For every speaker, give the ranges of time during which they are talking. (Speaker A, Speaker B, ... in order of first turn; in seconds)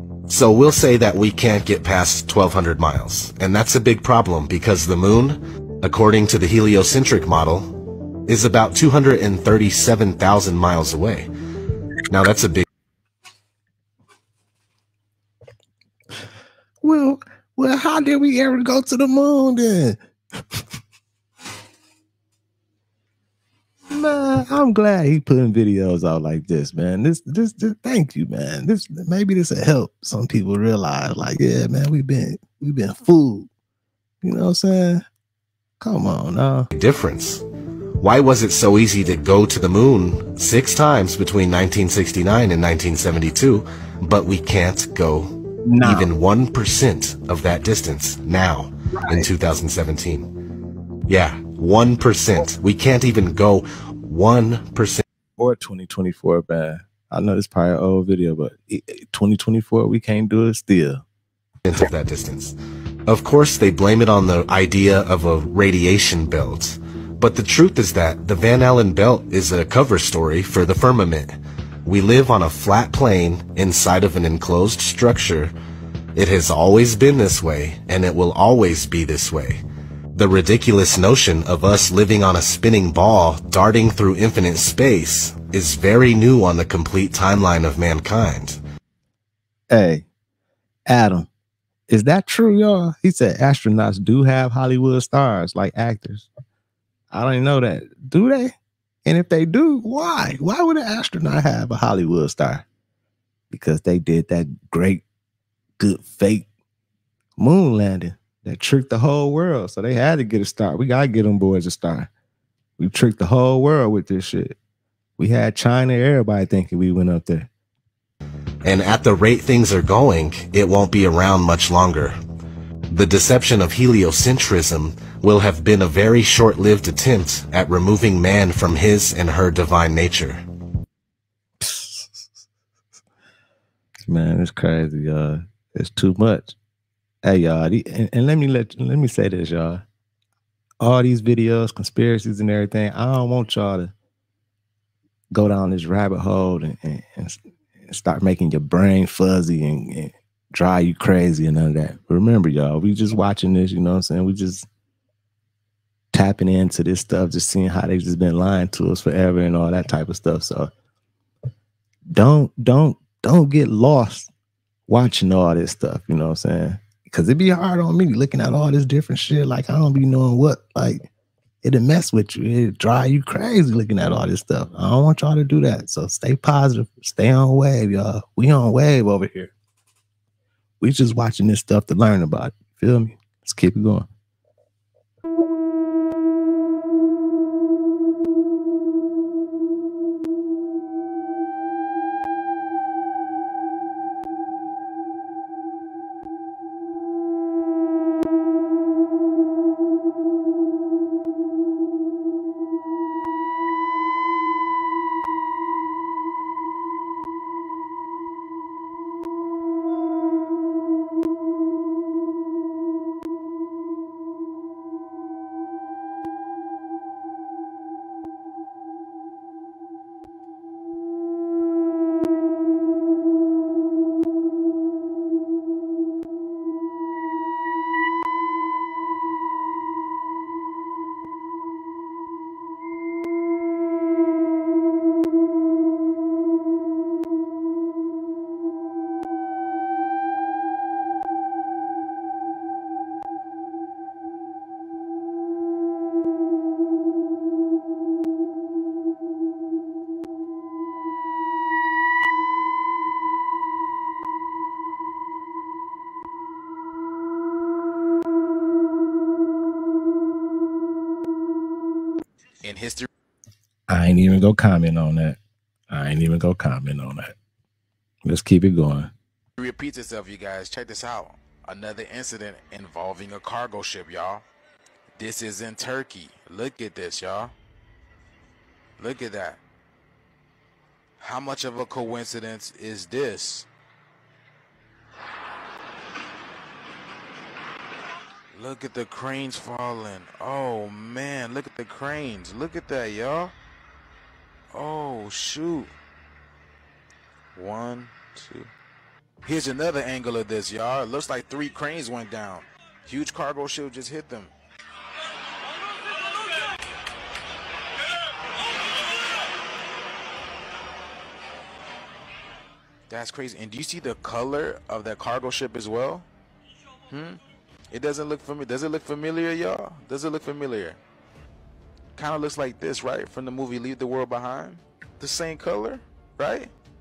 Speaker A: 0.3-7.7, 8.3-11.3, 12.1-12.7, 36.7-37.4, 38.0-50.3, 51.1-55.0, 61.6-62.5, 63.1-75.5, 76.1-79.6, 80.1-88.6, 118.6-122.2, 122.9-130.4
Speaker B: 16.8-20.0, 23.9-33.5, 34.2-35.0, 35.8-36.7, 45.6-46.1, 49.0-49.3, 55.4-61.0, 89.7-90.0, 90.9-91.3, 91.9-96.3, 97.1-98.5, 99.0-102.6, 103.5-105.0, 105.8-106.5, 107.4-112.1, 112.8-114.5, 115.2-117.5, 131.6-132.3, 134.1-136.5, 137.2-139.8, 140.8-143.9, 145.3-154.7, 156.1-160.7, 162.1-164.3, 164.9-171.1, 171.6-179.5, 180.8-184.1, 263.9-265.4, 265.9-267.3, 268.2-269.1
Speaker C: 262.6-263.1, 269.6-274.4, 275.2-277.5, 279.0-279.6, 281.2-283.6, 288.5-293.5, 294.7-295.9, 297.5-298.7, 299.4-304.5, 313.1-316.3, 317.1-317.4, 317.9-321.0, 322.1-326.7